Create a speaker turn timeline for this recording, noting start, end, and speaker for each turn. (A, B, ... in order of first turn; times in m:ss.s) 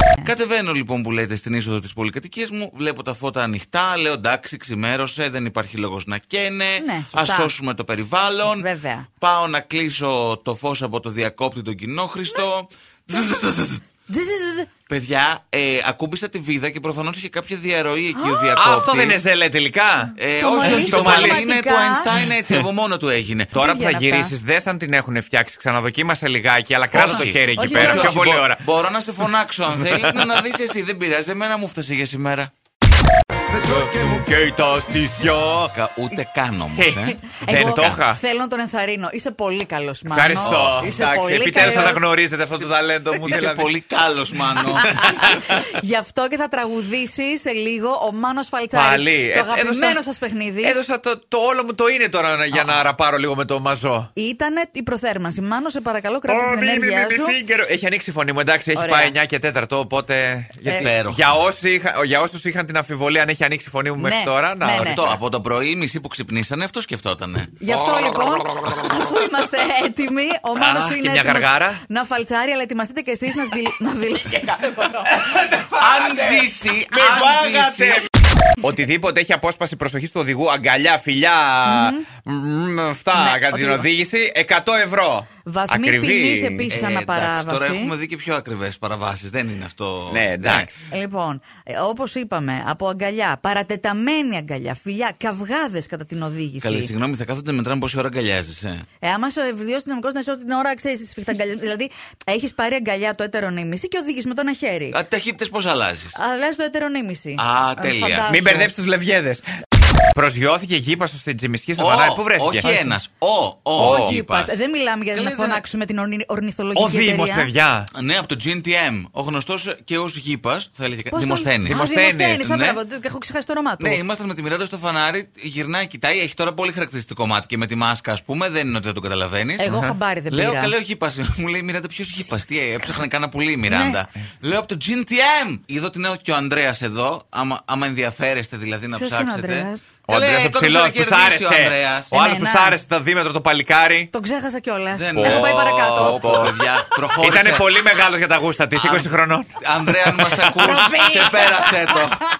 0:00.2-0:08.6 A
0:06.8-0:07.5 B
0:08.5-0:09.1 B
0:09.2-0:13.8 A
0:14.1-0:14.7 B
0:14.9-0:19.2 A
0:18.1-0:19.0 B
0:18.5-0:21.4 C
0:20.2-0:23.5 A
0:20.4-0:22.1 B
0:23.5-0:28.6 C
0:23.6-0:24.3 B
0:26.9-0:32.5 A
0:27.1-0:28.2 B
0:29.7-0:30.3 C
0:33.5-0:35.7 C
0:35.7-0:38.0 A
0:36.7-0:38.2 C
0:37.2-0:42.1 B
0:40.1-0:43.7 C
0:40.4-0:40.9 A
0:41.6-0:42.0 A
0:43.2-0:45.3 A
0:44.6-0:50.8 B
0:45.0-0:45.6 C
0:48.7-0:50.0 C
0:50.6-0:54.1 C
0:52.5-0:52.8 B
0:54.2-0:57.4 B
0:56.3-1:05.1 C
0:58.7-0:59.2 B
1:00.6-1:00.9 B
1:00.8-1:01.3 A
1:04.0-1:05.0 B
1:04.8-1:07.6 A
1:07.6-1:15.1 B
1:10.6-1:11.8 C
1:14.6-1:18.1 C
1:15.8-1:18.1 A
1:18.6-1:26.7 C
1:21.6-1:22.0 B
1:23.1-1:23.9 B
1:25.4-1:27.9 B
1:26.7-1:30.7 A
1:30.1-1:30.8 C
1:30.9-1:36.9 B
1:36.6-1:38.8 A
1:39.0-1:45.0 B
1:44.9-1:46.2 A
1:46.1-1:48.7 B
1:47.4-1:48.3 A
1:48.3-1:49.5 C
1:50.1-1:53.0 C
1:51.8-1:54.6 A
1:53.8-1:54.2 C
1:53.8-1:57.5 B
1:55.1-1:55.6 A
1:56.7-1:57.9 C
1:57.9-2:02.8 A
2:01.1-2:04.0 B
2:01.6-2:02.4 C
2:03.8-2:09.8 A
2:09.6-2:10.7 B
2:09.7-2:09.9 C
2:10.3-2:22.1 A
2:13.7-2:14.0 B
2:18.9-2:19.8 B
2:20.1-2:24.1 C
2:22.1-2:22.8 B
2:24.1-2:26.5 B
2:24.9-2:27.8 A
2:25.1-2:26.5 C
2:27.2-2:29.5 C
2:28.7-2:32.2 A
2:30.0-2:31.0 C
2:30.6-2:31.7 B